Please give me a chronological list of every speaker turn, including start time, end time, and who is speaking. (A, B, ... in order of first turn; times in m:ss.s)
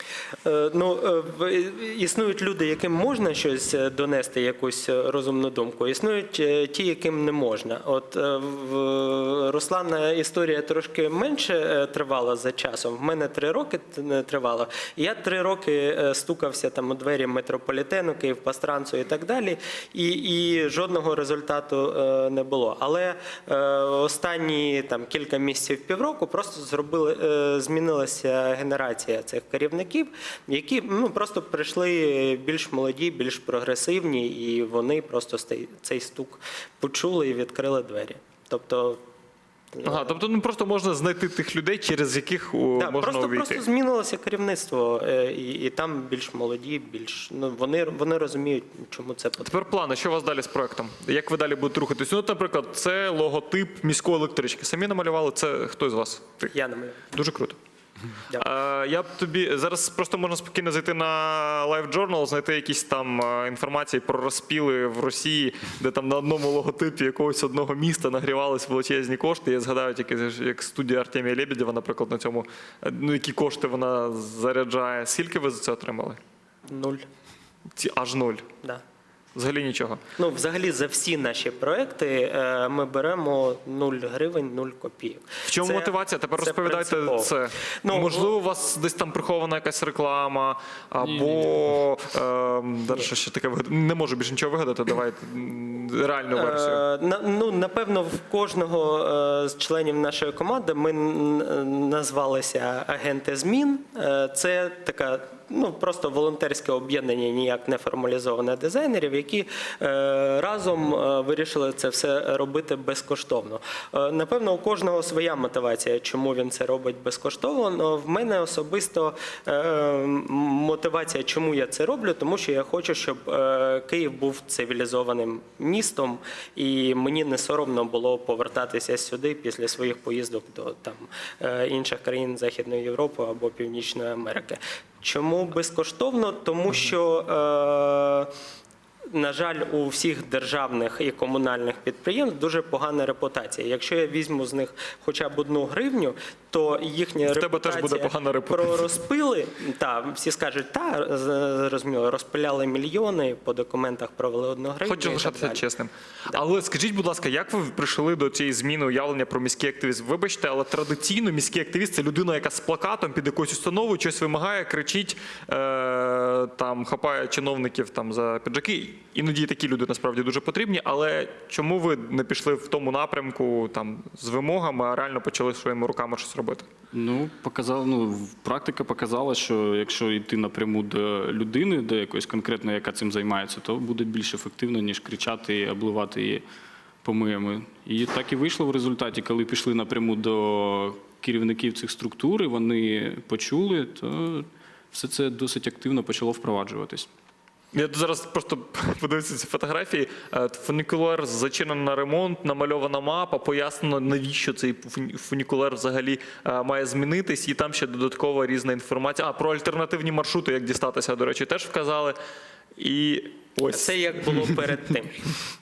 0:00.4-0:39.0 A
0:39.7-0:40.2 A
0:39.8-0:43.6 B
0:42.8-0:49.6 A
0:49.4-0:56.5 B
0:56.5-0:57.0 A
0:57.1-0:57.6 B
0:58.3-1:16.2 B
1:16.7-1:17.0 A
1:17.8-1:18.4 B
1:19.4-1:20.0 B
1:20.2-1:28.3 A
1:25.5-1:36.8 B
1:31.0-1:31.5 C
1:36.4-2:18.3 A
2:19.1-2:35.6 A
2:27.3-2:28.8 B
2:34.8-2:56.7 B
2:56.9-3:06.4 C
3:07.0-3:17.1 C
3:17.7-3:32.2 B
3:32.8-3:34.6 B
3:33.7-3:35.3 A